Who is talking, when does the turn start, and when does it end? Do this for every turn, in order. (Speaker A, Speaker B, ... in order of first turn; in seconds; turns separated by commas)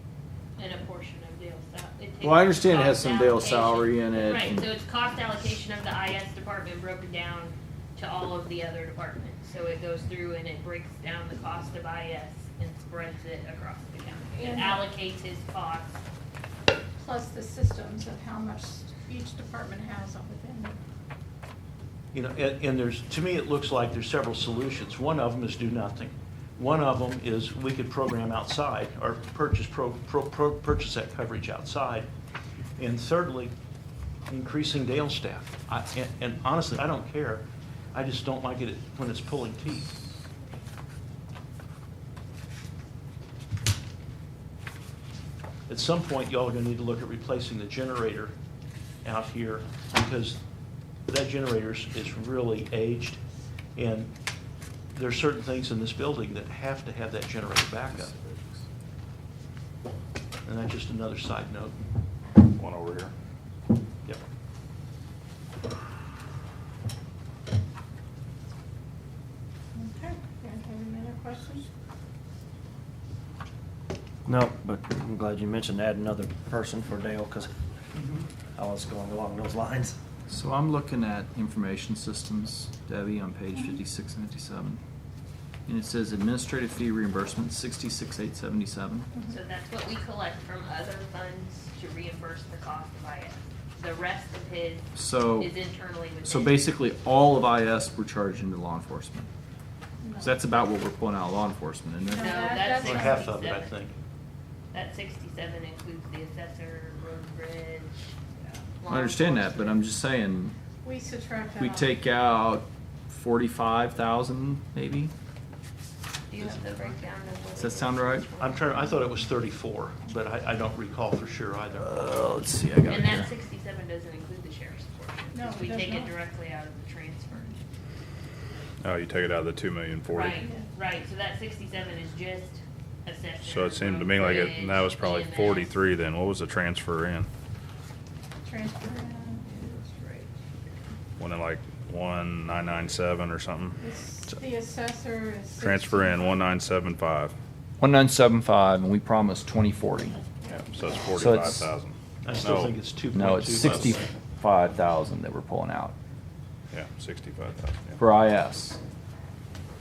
Speaker A: 0.6-16.0, Speaker B: 2.2-4.7, Speaker C: 14.4-14.8, Speaker C: 17.0-20.8, Speaker D: 22.1-32.1, Speaker D: 32.8-33.5, Speaker D: 34.3-40.0, Speaker D: 45.7-48.3, Speaker D: 49.0-50.4, Speaker D: 51.1-53.2, Speaker D: 53.8-54.1, Speaker D: 54.9-58.1, Speaker B: 57.9-58.6, Speaker D: 60.4-61.8, Speaker E: 62.5-63.1, Speaker C: 69.7-71.7, Speaker F: 74.2-77.5, Speaker F: 78.5-80.0, Speaker B: 80.3-84.8, Speaker B: 85.7-89.1, Speaker A: 89.3-96.6, Speaker B: 94.9-95.5, Speaker B: 96.2-99.3, Speaker C: 100.0-100.3, Speaker B: 100.2-102.4, Speaker C: 102.1-103.2, Speaker A: 102.1-103.7, Speaker D: 102.8-104.0, Speaker A: 104.7-108.2, Speaker A: 108.8-109.8, Speaker B: 108.9-110.5, Speaker C: 110.8-111.9, Speaker B: 111.6-115.1, Speaker A: 116.3-118.7, Speaker B: 117.5-118.2, Speaker D: 118.4-122.4, Speaker B: 121.8-123.3, Speaker A: 122.9-127.6, Speaker C: 125.3-126.1, Speaker E: 128.8-130.4, Speaker A: 130.1-135.8, Speaker E: 133.4-137.3, Speaker C: 138.4-139.9, Speaker E: 141.2-143.8, Speaker C: 143.8-146.3, Speaker E: 145.6-147.3, Speaker B: 147.8-150.2, Speaker E: 150.4-152.8, Speaker B: 151.1-151.7, Speaker D: 152.2-153.9, Speaker B: 153.1-155.9, Speaker E: 153.6-153.9, Speaker E: 156.7-158.0, Speaker B: 158.0-158.8